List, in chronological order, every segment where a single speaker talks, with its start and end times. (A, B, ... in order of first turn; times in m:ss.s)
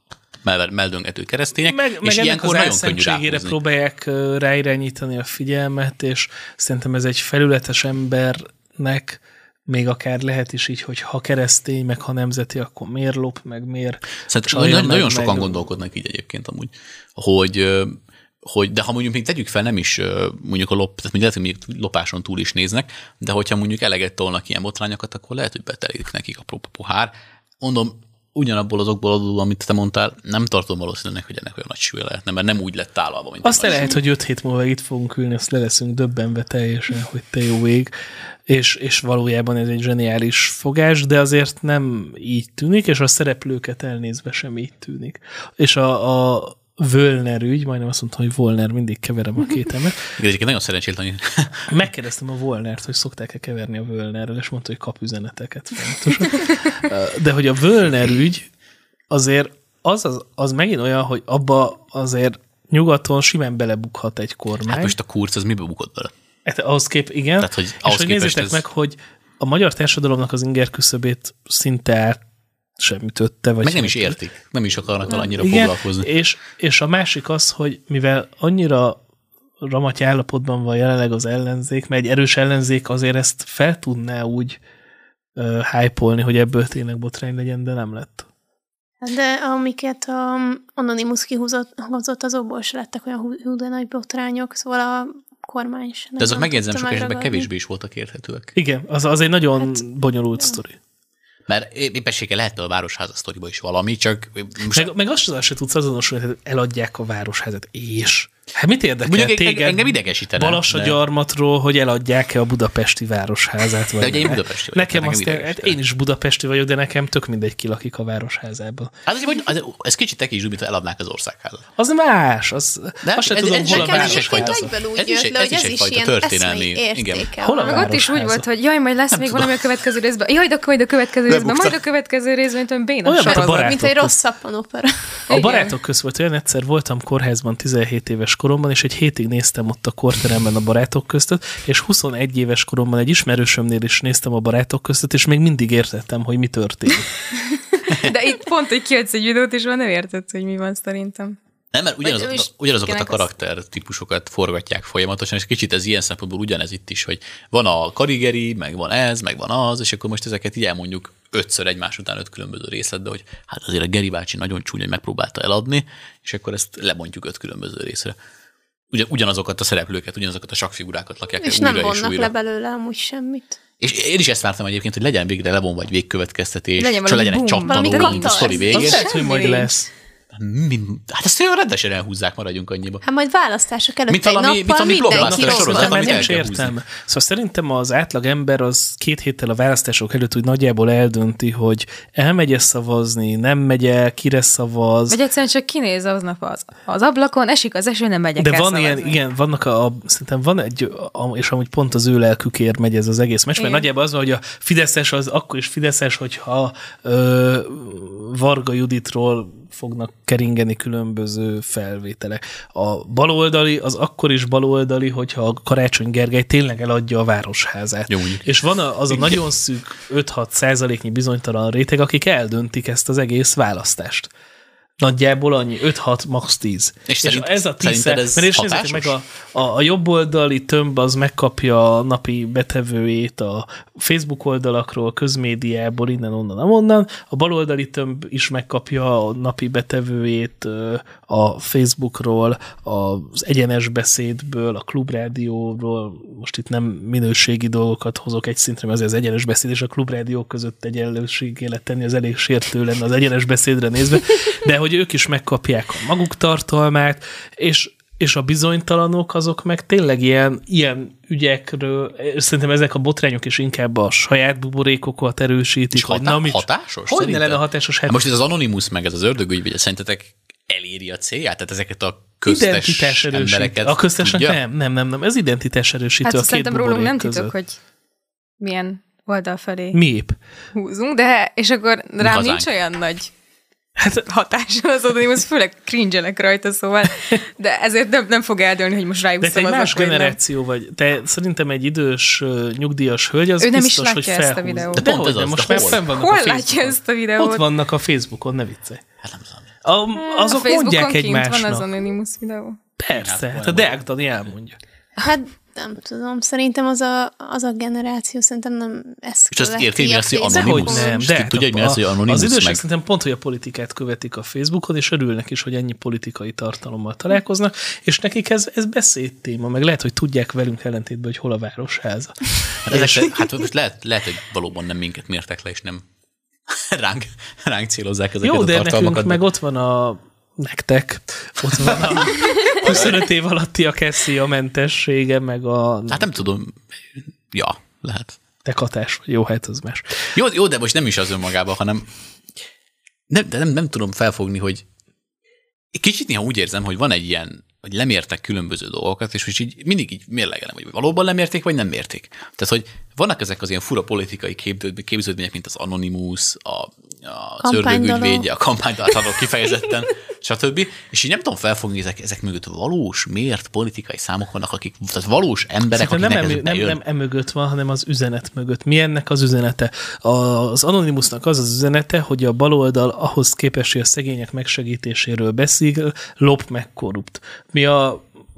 0:00.4-0:03.6 A
0:01.7-0:15.6 B
0:14.3-0:34.0 A
0:33.4-0:38.0 B
0:38.5-0:50.0 B
0:50.2-0:51.7 A
0:51.7-0:58.5 B
0:59.1-1:05.0 B
1:04.7-1:06.1 A
1:06.5-1:12.2 B
1:07.4-1:08.6 A
1:12.8-1:14.2 B
1:13.6-1:16.1 A
1:15.3-1:19.0 B
1:19.6-1:24.6 B
1:25.4-1:28.3 B
1:29.0-1:37.5 C
1:36.2-1:38.5 A
1:38.6-1:40.8 B
1:41.5-1:44.9 A
1:44.7-1:58.9 B
1:49.0-1:51.0 A
1:54.0-1:55.8 A
1:59.1-2:01.6 A
2:01.8-2:04.7 B
2:03.0-2:07.3 A
2:03.6-2:07.9 C
2:07.4-2:08.4 B
2:07.6-2:13.8 D
2:09.1-2:09.8 A
2:11.3-2:11.8 A
2:13.0-2:14.2 B
2:13.2-2:14.9 C
2:15.3-2:15.7 D
2:15.3-2:27.1 B
2:27.7-2:31.4 D
2:31.7-2:48.2 A
2:32.0-2:33.3 D
2:48.9-2:52.3 A
2:51.4-2:53.6 C
2:53.8-2:59.1 A
2:56.8-2:59.7 D
2:57.7-2:59.2 C
2:58.7-2:59.9 B
3:00.3-3:03.0 A
3:03.0-3:06.3 C
3:04.1-3:06.8 A
3:05.1-3:15.2 B
3:15.1-3:19.2 D
3:18.4-3:44.3 B
3:23.6-3:23.9 D
3:38.1-3:38.5 A
3:39.1-3:39.4 A
3:45.0-4:28.2 B
3:47.1-3:49.2 A
4:25.9-4:34.6 A
4:32.4-4:37.5 B
4:36.2-4:37.8 D
4:38.6-4:40.0 D
4:39.9-4:40.4 B
4:40.7-4:43.3 D
4:42.2-4:42.7 A
4:44.1-4:50.4 D
4:49.4-4:59.0 B
4:53.6-4:55.1 D
4:54.9-4:56.0 A
4:55.7-4:57.6 D
4:59.2-4:59.7 A
4:59.8-5:01.9 B
5:00.2-5:02.8 D
5:03.0-5:04.8 B
5:03.1-5:04.0 A
5:05.2-5:11.1 C
5:09.5-5:12.8 A
5:10.4-5:23.4 B
5:22.9-5:26.0 A
5:26.7-5:29.4 A
5:28.4-5:36.4 B
5:31.8-5:33.2 A
5:36.1-5:38.4 A
5:38.6-5:40.2 B
5:40.3-5:42.1 A
5:43.3-5:44.8 A
5:45.9-6:07.0 A
5:57.6-5:58.5 C
6:05.9-6:18.2 B